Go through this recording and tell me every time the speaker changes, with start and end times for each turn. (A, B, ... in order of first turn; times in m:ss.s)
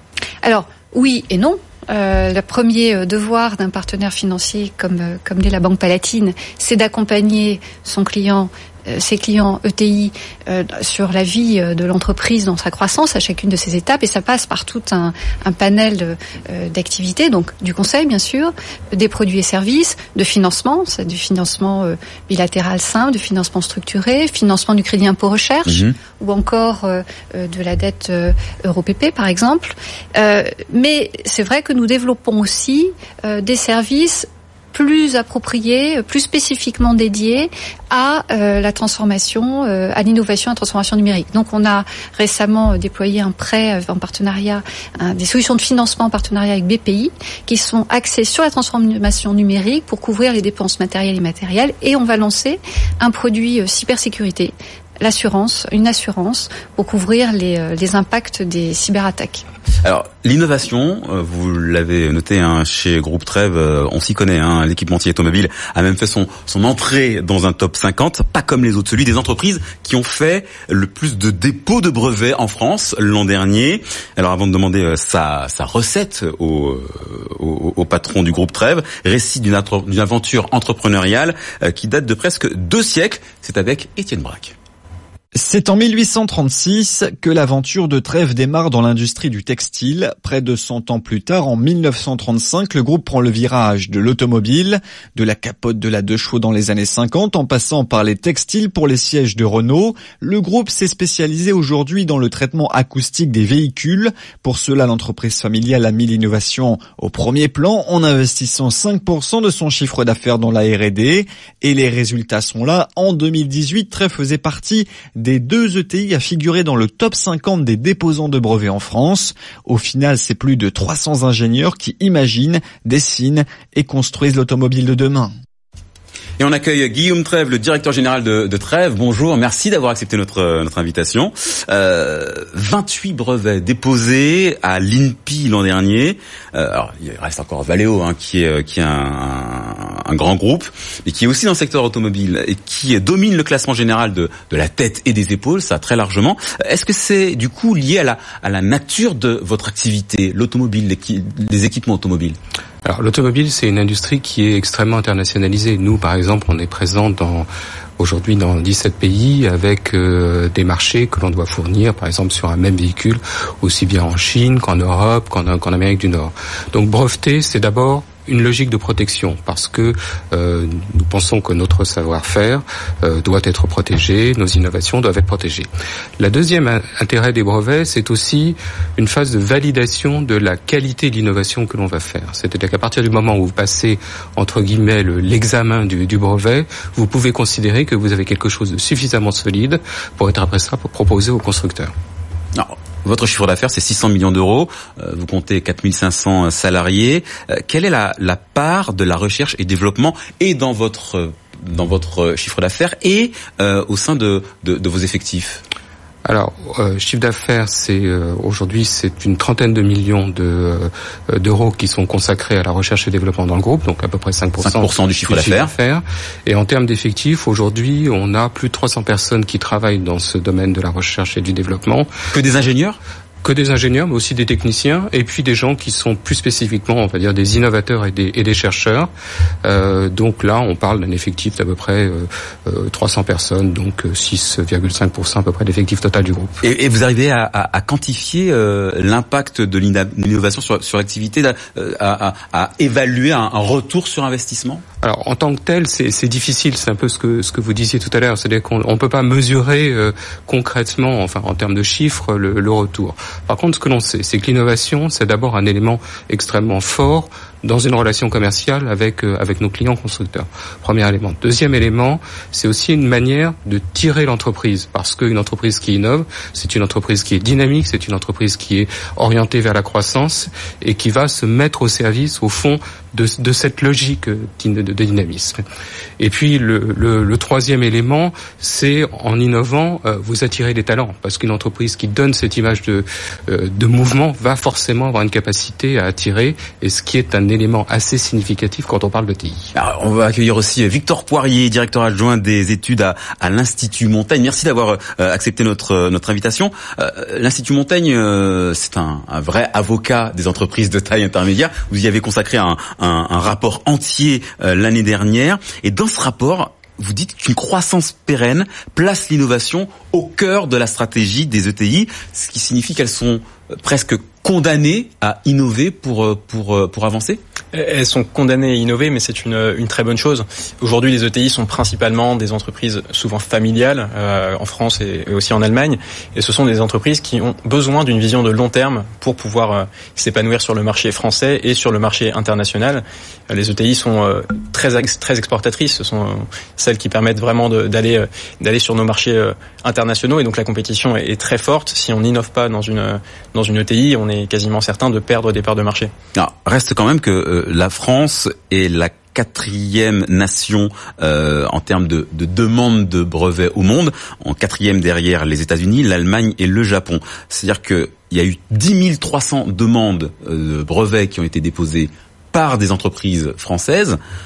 0:00.4-0:59.4 A
0:25.7-0:26.0 B
0:59.8-1:24.6 B
1:25.4-2:05.3 C
2:06.4-2:32.4 B
2:32.8-2:55.7 D
2:56.2-3:11.9 D
3:12.6-3:25.6 B
3:26.2-3:42.1 D
3:34.6-3:35.7 B
3:42.3-3:43.0 B
3:43.4-3:49.1 D
3:49.6-3:56.6 D
3:56.6-4:04.8 B
4:05.0-4:35.6 D
4:36.2-4:49.7 D
4:49.8-5:17.4 B
5:17.7-5:46.1 E
5:46.4-6:04.2 B